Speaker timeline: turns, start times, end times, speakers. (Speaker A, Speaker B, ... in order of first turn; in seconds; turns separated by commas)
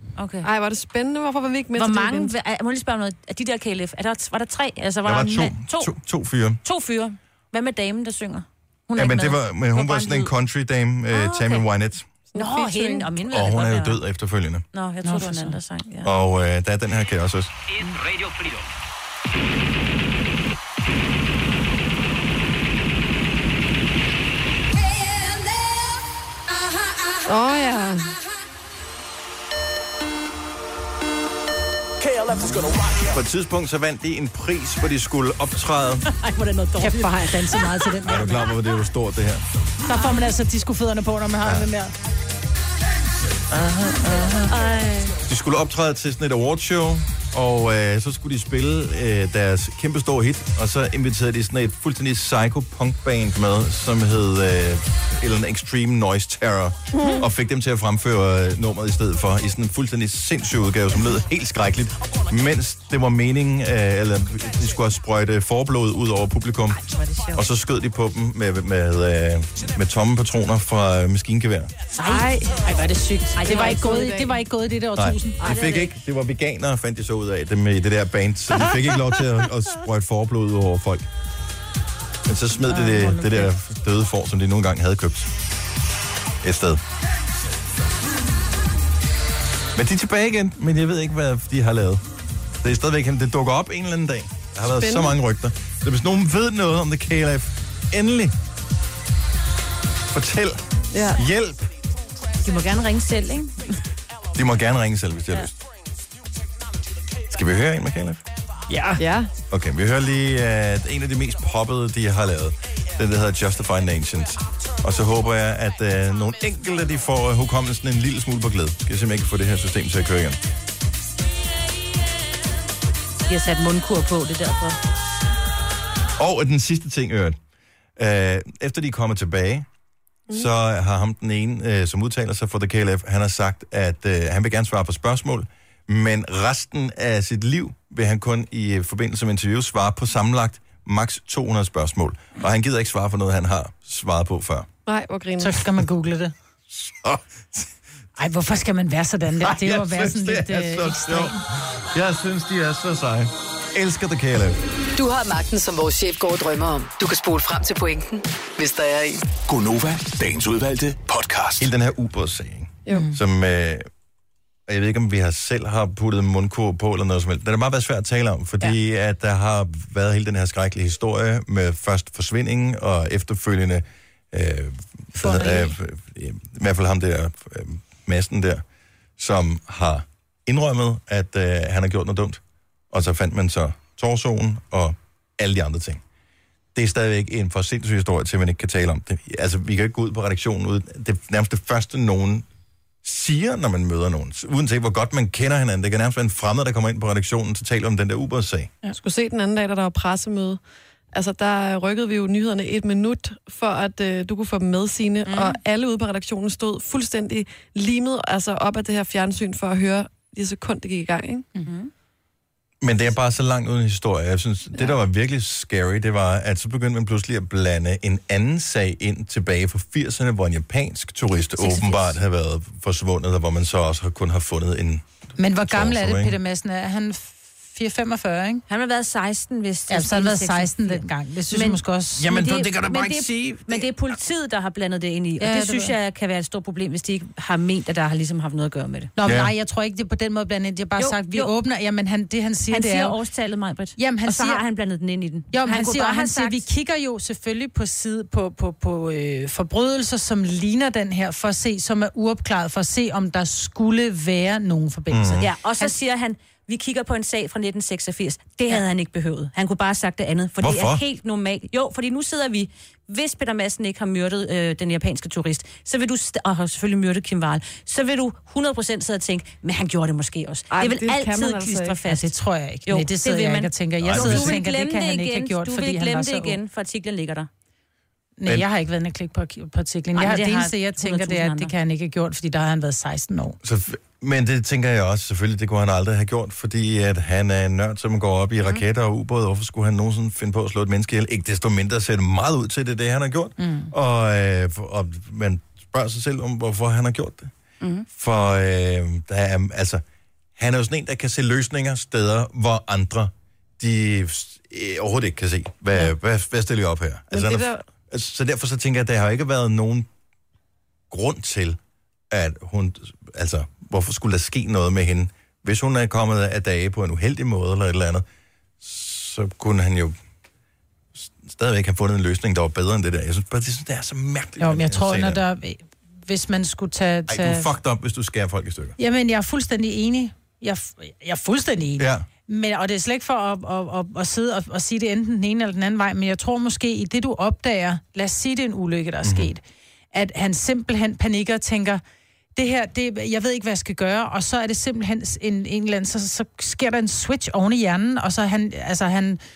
Speaker A: 0.2-0.5, Speaker B: 0.4-2.3, Speaker A: 1.7-5.9, Speaker C: 5.0-6.6, Speaker A: 6.6-10.3, Speaker C: 9.0-12.1, Speaker A: 11.1-11.7, Speaker B: 12.3-13.1, Speaker A: 12.3-14.0, Speaker C: 13.3-14.6, Speaker A: 14.7-16.1, Speaker D: 15.0-15.6, Speaker C: 16.0-17.6, Speaker E: 18.1-18.6, Speaker B: 27.2-28.1, Speaker E: 32.2-33.0, Speaker C: 33.1-36.1, Speaker A: 36.2-37.9, Speaker D: 36.8-38.5, Speaker C: 38.0-39.4, Speaker D: 39.8-41.9, Speaker C: 41.4-41.7, Speaker A: 43.6-45.1, Speaker C: 45.2-66.8, Speaker B: 57.0-57.2, Speaker A: 66.9-67.4, Speaker C: 67.3-71.7, Speaker D: 71.9-75.5, Speaker B: 72.0-72.6, Speaker A: 73.3-74.2, Speaker B: 73.5-74.3, Speaker C: 74.9-81.0, Speaker A: 75.4-75.9, Speaker C: 82.2-85.3, Speaker D: 82.7-83.3, Speaker A: 82.9-83.3, Speaker C: 86.4-86.8, Speaker C: 89.7-92.0, Speaker C: 92.6-98.4, Speaker B: 94.7-95.2, Speaker C: 100.1-101.7, Speaker B: 100.9-101.2, Speaker A: 102.4-103.8, Speaker C: 104.3-105.6, Speaker C: 107.3-108.2, Speaker D: 108.7-109.0, Speaker B: 109.0-109.3, Speaker C: 109.5-120.4, Speaker A: 123.3-124.8, Speaker C: 126.2-127.4, Speaker C: 128.0-129.7, Speaker C: 130.3-144.7, Speaker B: 144.8-145.6, Speaker D: 145.4-146.3, Speaker C: 146.7-147.7, Speaker D: 148.2-151.4, Speaker C: 149.4-154.6, Speaker F: 154.9-159.3, Speaker E: 159.5-161.7, Speaker C: 161.6-163.8, Speaker C: 164.7-178.6, Speaker D: 175.1-175.8, Speaker C: 179.2-186.0, Speaker C: 186.7-192.4, Speaker C: 193.0-198.7, Speaker B: 199.0-200.6, Speaker B: 201.1-211.5, Speaker A: 205.2-205.6, Speaker A: 211.7-211.9, Speaker C: 212.8-225.0, Speaker D: 225.4-228.6, Speaker C: 225.6-226.3, Speaker A: 228.7-239.1, Speaker D: 229.9-232.3, Speaker C: 232.2-233.9, Speaker D: 235.4-235.9, Speaker D: 239.2-243.1, Speaker C: 239.2-239.5, Speaker A: 241.0-241.5, Speaker A: 242.7-246.7, Speaker D: 244.0-244.6, Speaker D: 245.5-255.9, Speaker C: 255.1-255.5, Speaker A: 255.4-272.3, Speaker C: 260.6-261.0, Speaker B: 270.7-272.0, Speaker D: 272.1-276.6, Speaker A: 272.9-277.5, Speaker C: 274.0-274.6, Speaker D: 278.4-283.6, Speaker A: 280.1-281.7, Speaker C: 283.6-297.5, Speaker D: 293.6-293.9, Speaker C: 298.1-300.0, Speaker C: 300.6-310.1, Speaker B: 307.3-307.8, Speaker C: 311.1-311.8, Speaker C: 312.3-318.2, Speaker C: 318.8-320.1, Speaker C: 321.1-325.4, Speaker D: 324.6-327.7, Speaker C: 327.3-328.9, Speaker D: 329.0-342.0, Speaker C: 332.0-332.2, Speaker C: 339.2-339.5, Speaker D: 342.6-349.4